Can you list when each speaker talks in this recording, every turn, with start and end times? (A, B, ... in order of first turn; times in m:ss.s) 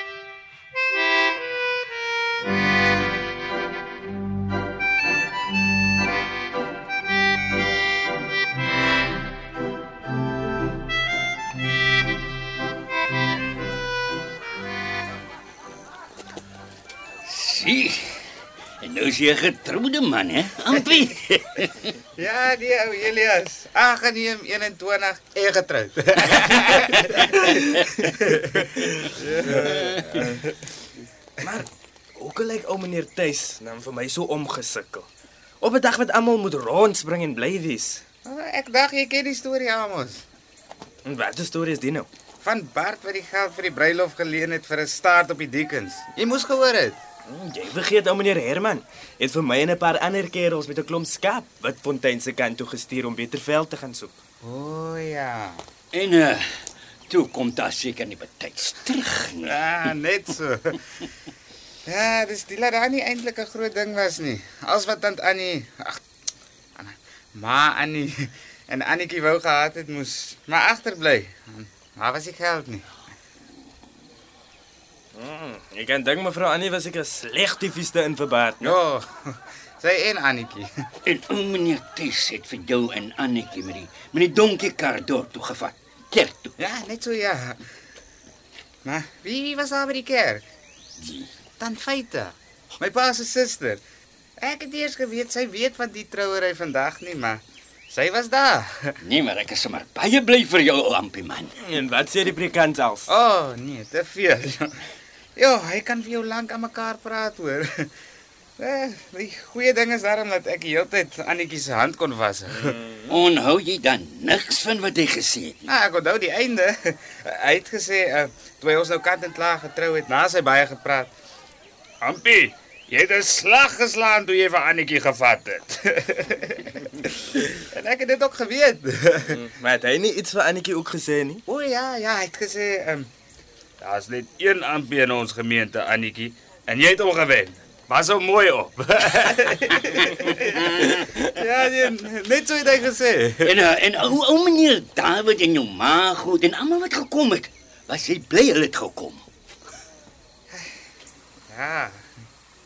0:17.2-0:18.2 A
0:18.8-0:21.8 A
0:22.2-0:30.3 B
0:32.2-0:35.1 C
0:35.6-0:38.0 C
0:38.2-0:40.2 B
0:41.0-0:42.1 C
0:42.4-0:47.0 B
0:47.3-0:54.2 C
0:54.4-0:55.6 B
0:55.9-0:59.6 A
0:59.4-1:00.8 B
1:01.9-1:06.0 B
1:06.8-1:12.8 B
1:15.2-1:18.7 C
1:18.6-1:20.7 B
1:21.0-1:26.5 A
1:26.6-1:27.6 B
1:28.8-1:30.4 B
1:31.0-1:31.3 A
1:31.6-1:33.8 B
1:34.4-1:38.9 B
1:39.0-1:41.5 A
1:41.6-1:43.1 C
1:43.1-1:44.7 B
1:45.4-1:47.9 B
1:48.6-1:52.7 B
1:53.1-1:55.6 A
1:55.6-2:01.1 B
2:02.0-2:09.4 B
2:09.4-2:11.4 C
2:11.5-2:13.1 B
2:13.8-2:23.5 B
2:23.4-2:29.2 A
2:31.5-2:32.0 B